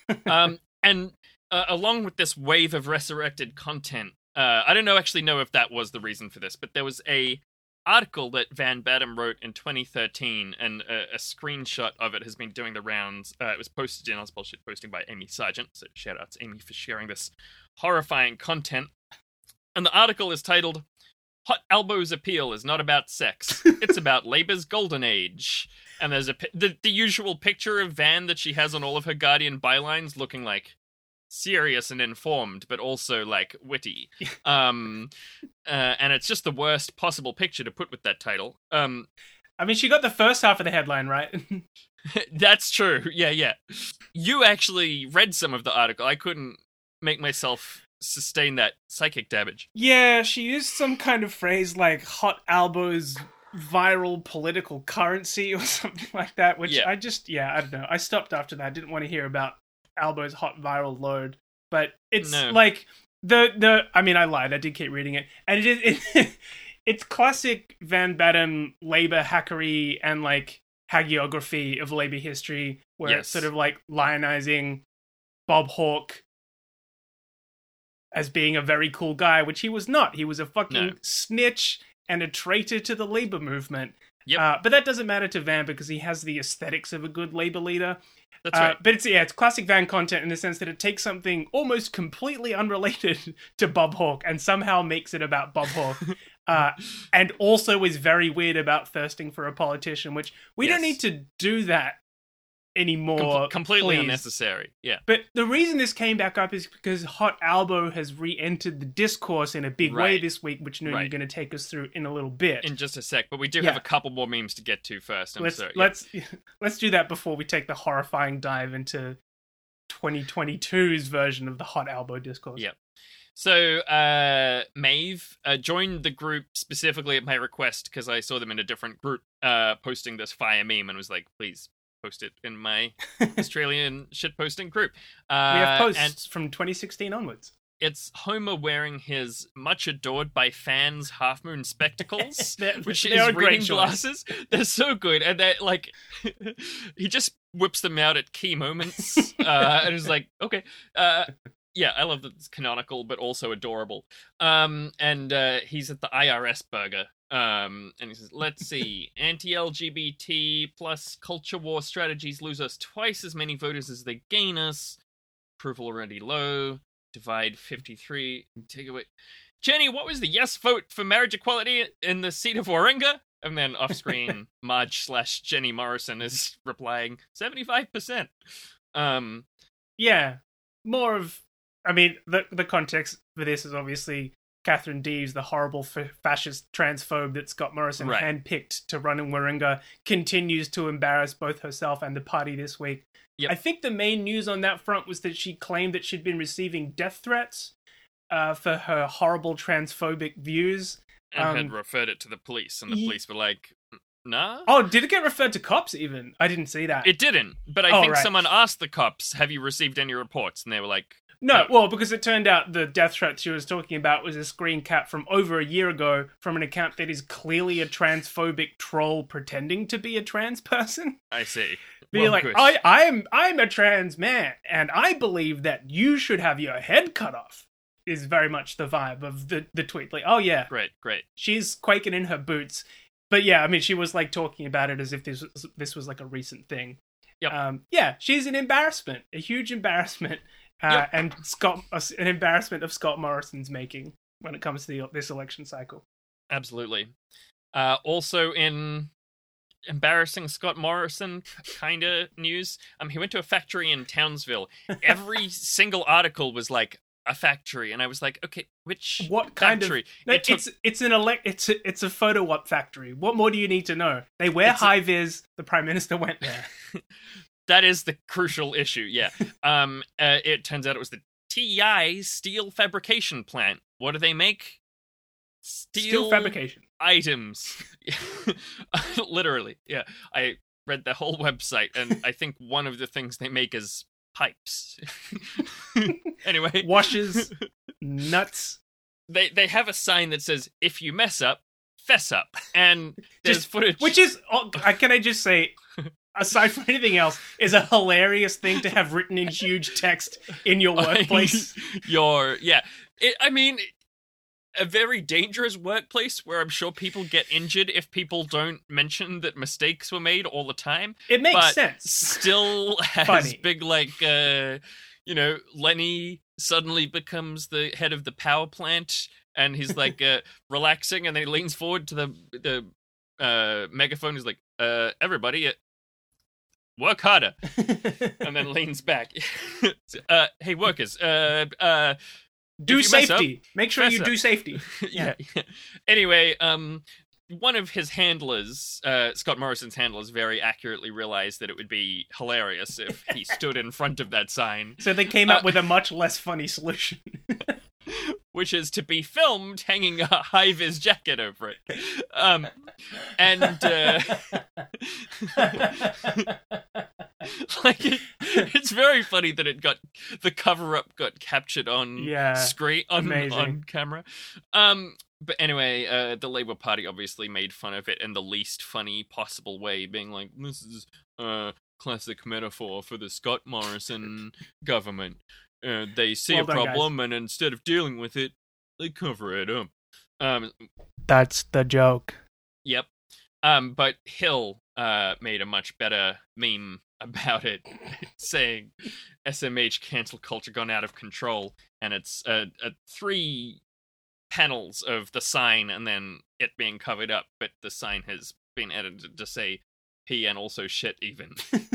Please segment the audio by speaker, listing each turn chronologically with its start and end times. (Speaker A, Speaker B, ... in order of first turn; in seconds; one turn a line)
Speaker A: 0.2-18.9
Speaker A: 19.7-20.8
Speaker A: 21.4-30.8
Speaker A: 31.3-35.1
Speaker A: 35.6-39.1
Speaker B: 39.6-41.6
Speaker A: 42.1-49.7
Speaker B: 49.7-74.8
Speaker A: 56.6-56.9
Speaker A: 62.2-62.6
Speaker A: 73.0-73.5
Speaker B: 75.5-76.2
Speaker B: 78.1-88.0
Speaker A: 80.7-81.0
Speaker A: 88.4-88.8
Speaker B: 88.5-102.0
Speaker A: 100.6-101.0
Speaker B: 102.7-104.2
Speaker A: 103.2-105.0
Speaker B: 105.1-112.7
Speaker A: 109.8-110.2
Speaker A: 110.8-111.1
Speaker A: 112.6-115.9
Speaker B: 115.4-119.2
Speaker B: 119.9-122.6
Speaker A: 123.3-136.1
Speaker B: 135.5-137.5
Speaker A: 137.8-165.0
Speaker B: 142.4-144.0
Speaker A: 165.6-169.1
Speaker A: 169.6-178.3
Speaker A: 178.9-179.4
Speaker B: 180.0-197.7
Speaker A: 188.0-188.3
Speaker B: 198.3-201.7
Speaker A: 201.3-204.7
Speaker B: 202.9-203.2
Speaker B: 204.7-207.1
Speaker A: 207.0-211.7
Speaker B: 207.9-208.3
Speaker B: 211.4-221.2
Speaker A: 221.3-222.7
Speaker B: 222.1-230.7
Speaker A: 230.7-231.2
Speaker B: 231.4-246.0
Speaker A: 246.5-247.1
Speaker A: 247.7-249.1
Speaker A: 249.9-260.6
Speaker B: 259.2-266.7
Speaker A: 264.6-264.9
Speaker A: 267.7-274.8
Speaker A: 275.6-287.6
Speaker B: 275.9-276.8
Speaker B: 286.8-288.8
Speaker A: 289.3-294.1
Speaker B: 293.4-295.8
Speaker B: 296.3-301.8
Speaker A: 300.9-303.9
Speaker A: 304.8-325.8
Speaker B: 311.3-312.7
Speaker B: 313.2-313.6
Speaker A: 327.0-332.2
Speaker B: 327.8-328.3
Speaker B: 332.8-335.3
Speaker A: 332.9-345.8
Speaker B: 345.0-347.7
Speaker A: 348.1-356.5
Speaker B: 353.7-354.6
Speaker B: 355.6-356.5
Speaker A: 357.4-380.9
Speaker B: 362.2-363.8
Speaker B: 376.5-377.1
Speaker B: 381.3-382.4
Speaker A: 383.6-393.8
Speaker A: 394.5-401.8